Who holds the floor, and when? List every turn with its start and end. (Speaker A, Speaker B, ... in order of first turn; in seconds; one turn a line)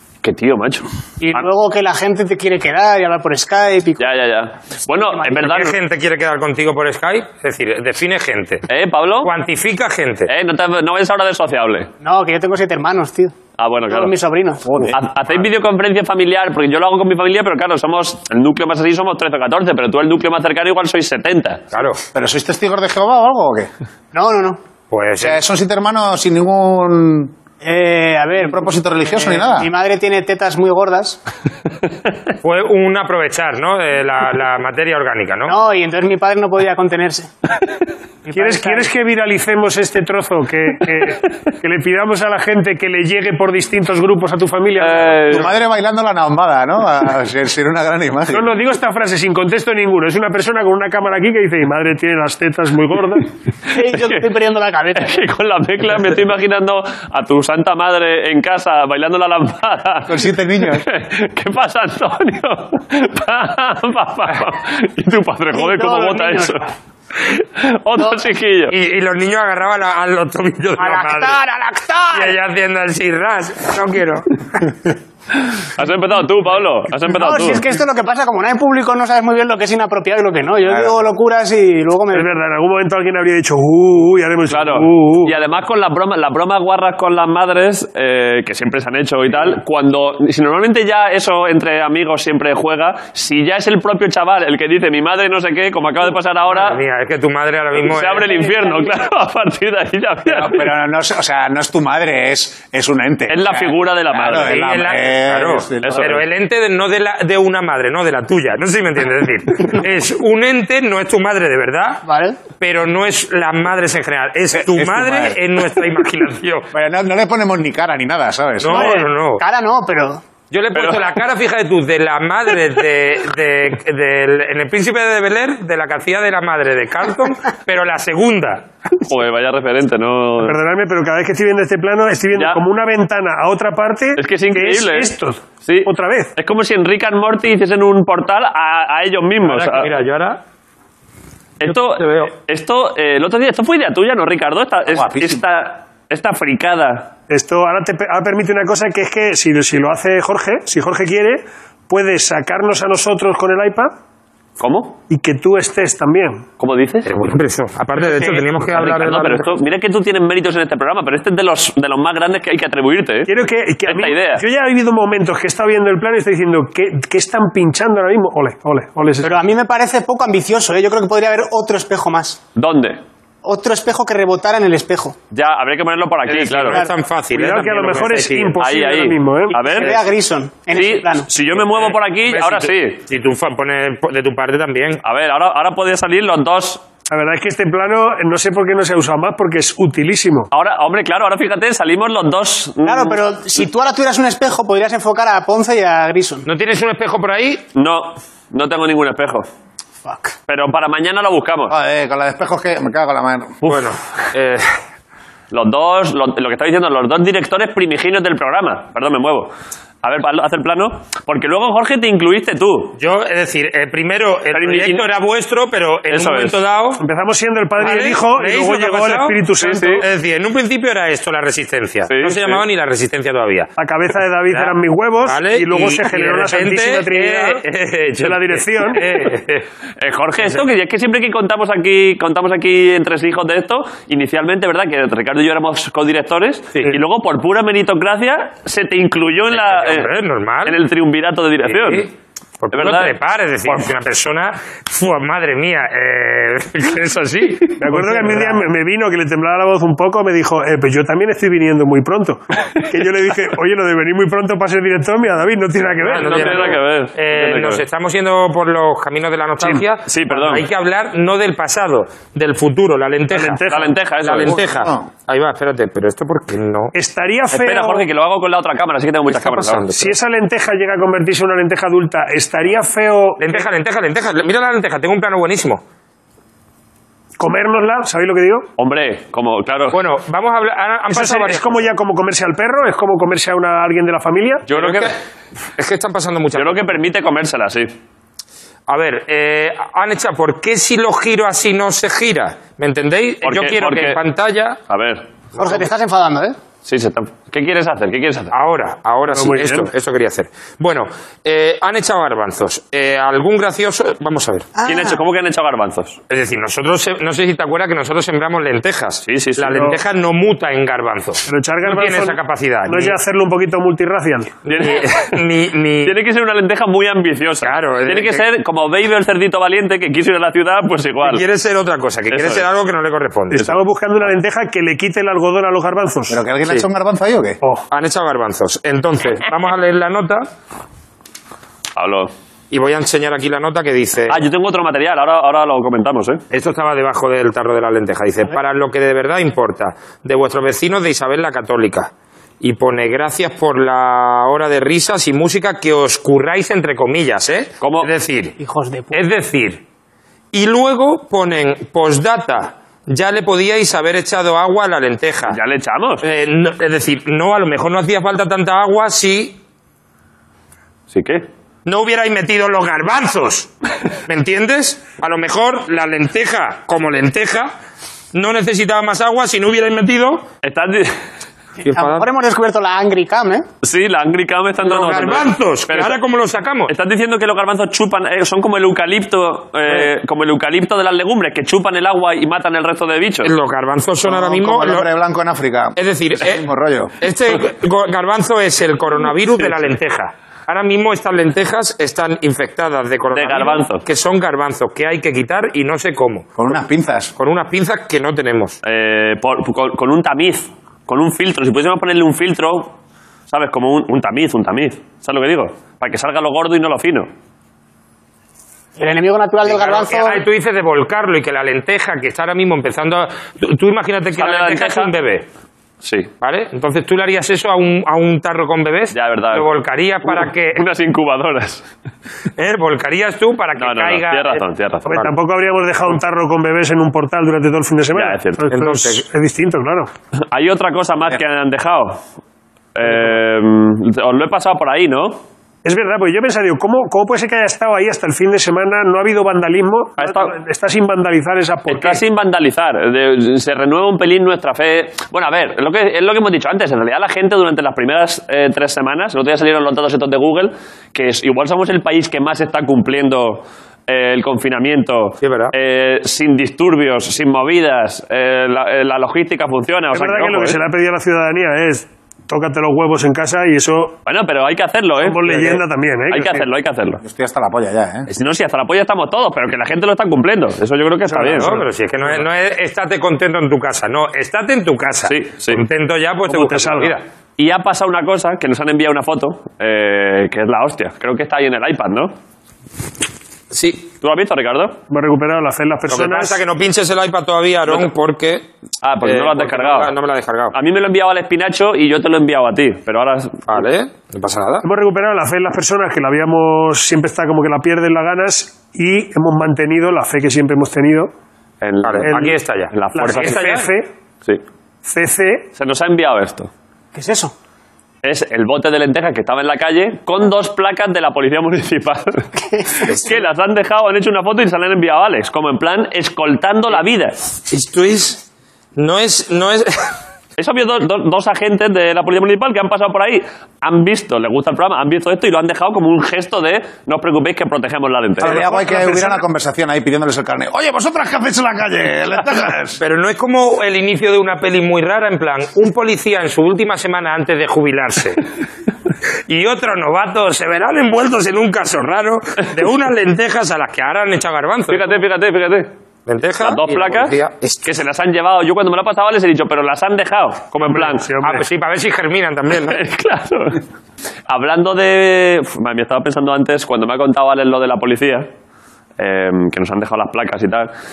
Speaker A: 0.2-1.4
Speaker B: 1.2-4.1
Speaker A: 4.0-5.8
Speaker B: 4.9-5.6
Speaker C: 5.3-8.7
Speaker A: 8.7-9.3
Speaker C: 9.2-10.3
Speaker A: 10.3-11.9
Speaker B: 12.0-13.3
Speaker A: 13.6-14.1
Speaker B: 13.9-14.9
Speaker A: 14.8-21.6
Speaker C: 21.7-22.0
Speaker D: 22.1-23.7
Speaker B: 24.1-24.6
Speaker C: 24.9-25.4
Speaker D: 25.2-27.3
Speaker B: 27.6-31.2
Speaker D: 28.4-29.7
Speaker C: 32.4-35.5
Speaker B: 35.5-37.3
Speaker B: 38.3-38.9
Speaker E: 38.3-45.4
Speaker A: 44.8-45.5
Speaker D: 45.3-48.5
Speaker E: 48.3-53.3
Speaker B: 53.7-55.2
Speaker A: 53.9-54.3
Speaker A: 54.9-66.6
Speaker D: 60.1-60.8
Speaker B: 65.5-66.7
Speaker A: 67.3-68.7
Speaker B: 68.0-68.2
Speaker C: 68.7-71.4
Speaker B: 70.8-72.3
Speaker C: 72.1-74.7
Speaker A: 75.4-77.6
Speaker B: 77.0-82.3
Speaker D: 80.6-81.0
Speaker E: 82.1-85.3
Speaker A: 84.5-96.8
Speaker C: 96.5-98.3
Speaker A: 97.8-100.7
Speaker B: 98.5-98.8
Speaker D: 100.2-106.2
Speaker A: 103.3-104.7
Speaker C: 104.5-112.0
Speaker A: 105.8-106.2
Speaker B: 112.0-112.4
Speaker C: 112.6-116.7
Speaker D: 114.5-115.4
Speaker D: 116.7-119.0
Speaker C: 118.6-119.4
Speaker B: 118.7-120.2
Speaker C: 120.5-128.7
Speaker A: 120.7-121.0
Speaker A: 128.9-130.6
Speaker E: 130.4-136.3
Speaker A: 132.3-132.6
Speaker A: 134.2-139.9
Speaker C: 139.4-140.4
Speaker A: 141.6-147.1
Speaker C: 141.7-142.3
Speaker D: 144.9-145.4
Speaker E: 147.3-153.9
Speaker A: 154.6-155.0
Speaker E: 155.1-156.4
Speaker A: 156.6-157.1
Speaker C: 157.0-159.5
Speaker A: 158.7-163.3
Speaker E: 163.2-169.4
Speaker A: 163.8-164.4
Speaker B: 169.2-172.4
Speaker A: 172.6-173.0
Speaker B: 173.4-175.2
Speaker A: 175.3-176.8
Speaker C: 176.3-178.6
Speaker E: 177.3-179.6
Speaker A: 178.6-180.0
Speaker B: 179.5-181.3
Speaker A: 180.7-183.0
Speaker C: 181.7-185.0
Speaker A: 185.0-186.8
Speaker E: 187.1-190.5
Speaker A: 190.5-193.2
Speaker B: 192.8-196.4
Speaker C: 196.4-197.6
Speaker A: 197.7-199.5
Speaker B: 200.0-200.3
Speaker A: 200.5-201.7
Speaker D: 201.7-203.6
Speaker A: 203.6-203.9
Speaker C: 203.6-204.7
Speaker A: 205.5-209.5
Speaker A: 210.0-212.9
Speaker C: 213.0-217.0
Speaker A: 214.5-215.1
Speaker A: 216.1-216.6
Speaker E: 217.0-220.1
Speaker C: 217.8-223.7
Speaker A: 219.6-220.0
Speaker A: 222.1-222.6
Speaker E: 223.8-227.6
Speaker C: 224.5-229.7
Speaker E: 228.2-229.2
Speaker A: 230.0-240.1
Speaker C: 239.5-240.8
Speaker A: 240.6-242.1
Speaker C: 241.6-242.1
Speaker C: 242.6-248.6
Speaker A: 242.7-243.2
Speaker E: 247.8-256.7
Speaker C: 256.0-263.6
Speaker A: 256.1-257.8
Speaker A: 260.1-260.6
Speaker E: 263.3-263.9
Speaker A: 263.7-264.6
Speaker C: 264.2-266.9
Speaker D: 264.6-265.1
Speaker E: 266.9-268.0
Speaker A: 267.5-269.9
Speaker C: 269.2-270.1
Speaker E: 269.9-273.6
Speaker C: 273.4-275.8
Speaker E: 277.4-278.7
Speaker A: 278.8-280.0
Speaker C: 279.9-281.9
Speaker E: 281.1-284.6
Speaker A: 284.7-285.1
Speaker C: 284.7-285.1
Speaker C: 285.8-287.0
Speaker A: 286.5-287.9
Speaker C: 288.9-294.8
Speaker A: 293.4-294.2
Speaker A: 294.9-295.3
Speaker B: 295.6-296.6
Speaker A: 296.8-298.5
Speaker C: 298.5-304.7
Speaker E: 299.3-299.9
Speaker B: 304.8-305.2
Speaker A: 304.8-306.2
Speaker C: 306.3-313.2
Speaker A: 309.2-309.9
Speaker E: 311.5-314.5
Speaker C: 314.6-316.2
Speaker A: 314.7-315.4
Speaker A: 316.0-321.4
Speaker C: 317.6-318.4
Speaker C: 321.2-323.7
Speaker A: 322.3-322.6
Speaker E: 323.5-326.4
Speaker D: 326.3-327.6
Speaker C: 327.9-330.5
Speaker A: 331.9-332.3
Speaker C: 332.7-334.5
Speaker A: 334.3-336.4
Speaker C: 336.5-348.6
Speaker A: 347.8-348.1
Speaker B: 348.6-349.2
Speaker C: 349.1-349.8
Speaker C: 350.5-355.6
Speaker A: 355.5-356.2
Speaker C: 356.2-359.6
Speaker A: 361.1-361.4
Speaker C: 361.9-363.7
Speaker C: 364.2-367.7
Speaker C: 368.3-370.4
Speaker A: 370.6-371.2
Speaker B: 371.8-373.6
Speaker C: 371.8-372.3
Speaker A: 373.8-376.2
Speaker C: 374.8-376.9
Speaker A: 376.9-383.5
Speaker C: 383.4-385.1
Speaker D: 384.2-387.1
Speaker C: 385.9-386.6
Speaker C: 387.2-396.5
Speaker A: 393.3-394.0
Speaker D: 396.6-397.3
Speaker C: 397.4-398.8
Speaker A: 398.8-402.9
Speaker A: 403.5-407.3
Speaker B: 409.0-410.4
Speaker C: 409.6-415.4
Speaker A: 414.4-415.1
Speaker A: 416.0-416.3
Speaker C: 416.4-420.8
Speaker A: 419.1-419.7
Speaker A: 420.2-421.9
Speaker C: 422.6-425.3
Speaker A: 423.8-425.1
Speaker E: 425.1-430.1
Speaker A: 428.1-428.7
Speaker C: 428.7-429.2
Speaker A: 430.5-432.2
Speaker A: 432.9-435.4
Speaker E: 435.8-442.2
Speaker A: 440.2-440.5
Speaker A: 441.9-460.8
Speaker C: 455.4-455.7
Speaker E: 460.1-464.2
Speaker A: 464.2-467.2
Speaker E: 465.2-466.6
Speaker D: 467.2-468.3
Speaker A: 468.3-471.7
Speaker E: 471.2-471.9
Speaker C: 471.5-477.2
Speaker A: 475.2-475.8
Speaker E: 476.5-477.2
Speaker A: 477.6-482.3
Speaker C: 483.7-484.1
Speaker A: 484.2-485.0
Speaker E: 485.1-486.6
Speaker C: 486.1-488.7
Speaker A: 489.0-490.1
Speaker C: 489.2-490.7
Speaker A: 490.7-493.7
Speaker C: 493.7-494.9
Speaker E: 494.8-501.3
Speaker A: 501.8-503.8
Speaker C: 502.0-503.9
Speaker E: 502.2-502.6
Speaker E: 503.1-504.1
Speaker E: 505.1-505.7
Speaker A: 505.8-506.7
Speaker B: 507.1-507.5
Speaker A: 508.2-517.4
Speaker B: 512.6-513.3
Speaker C: 517.7-518.4
Speaker C: 519.0-520.1
Speaker A: 520.6-528.6
Speaker D: 528.4-533.0
Speaker E: 528.4-529.4
Speaker C: 533.0-538.4
Speaker C: 539.5-545.1
Speaker A: 544.9-545.9
Speaker C: 546.2-547.8
Speaker A: 546.6-551.3
Speaker E: 550.9-551.6
Speaker C: 551.4-553.0
Speaker A: 552.8-553.8
Speaker A: 554.5-558.5
Speaker A: 559.2-560.9